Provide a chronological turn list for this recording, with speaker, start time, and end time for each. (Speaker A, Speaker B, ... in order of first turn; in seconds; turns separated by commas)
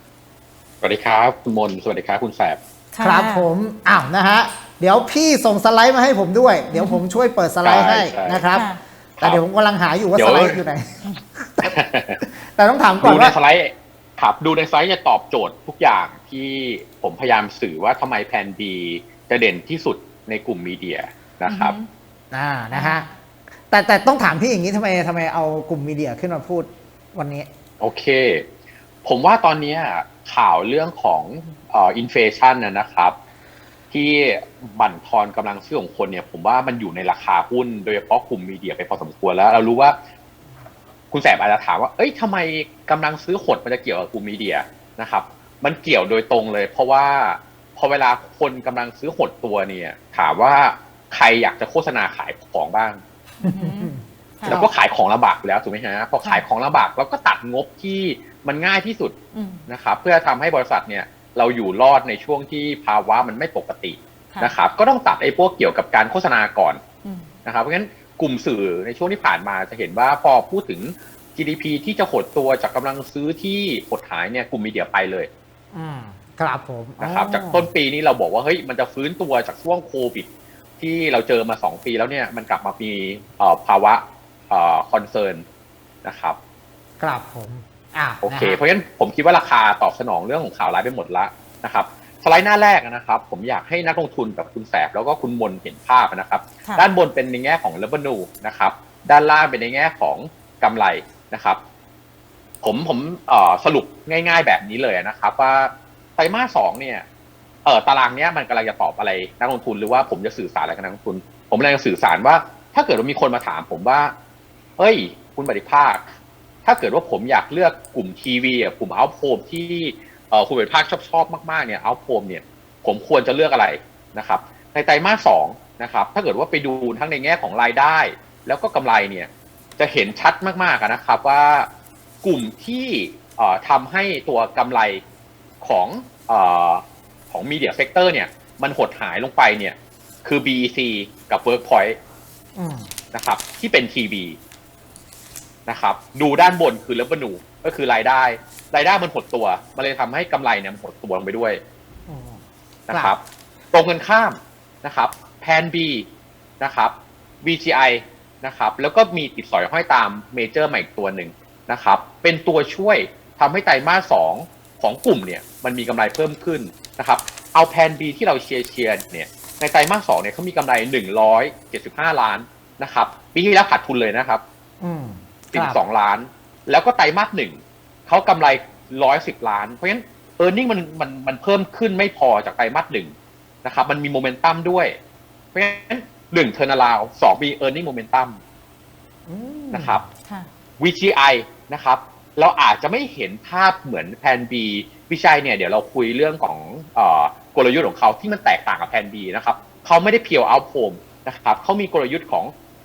Speaker A: 0.8-2.6, Speaker B: 2.9-3.5, Speaker C: 3.0-13.3, Speaker B: 6.7-7.0, Speaker A: 7.6-8.4, Speaker B: 8.5-8.8, Speaker A: 10.2-10.6, Speaker A: 11.6-12.2, Speaker A: 13.0-21.8, Speaker B: 21.5-21.9, Speaker C: 22.3-23.1, Speaker B: 22.7-23.0, Speaker C: 23.7-27.5, Speaker A: 27.8-28.4, Speaker A: 29.0-33.1, Speaker A: 33.9-40.0, Speaker A: 41.1-53.0, Speaker B: 53.4-54.6, Speaker C: 53.4-54.7, Speaker A: 54.5-59.1, Speaker B: 59.3-59.6, Speaker A: 59.7-66.8, Speaker B: 67.0-67.3, Speaker A: 67.4-75.3, Speaker C: 75.7-77.7, Speaker A: 77.0-85.4, Speaker A: 86.0-86.4, Speaker C: 87.0-88.6, Speaker A: 88.2-101.6, Speaker A: 102.6-107.0, Speaker A: 107.6-114.1, Speaker A: 114.8-116.1, Speaker A: 116.6-131.7, Speaker A: 132.2-135.0, Speaker A: 135.6-142.0, Speaker C: 142.6-142.9, Speaker A: 143.1-144.4, Speaker A: 145.7-151.6, Speaker C: 152.1-153.1, Speaker A: 152.9-153.2, Speaker A: 153.7-156.1, Speaker A: 156.6-174.4, Speaker C: 174.8-175.8, Speaker A: 175.5-183.1, Speaker A: 183.6-184.9, Speaker A: 185.5-188.4, Speaker C: 189.3-190.0, Speaker A: 189.7-190.0, Speaker A: 190.8-202.5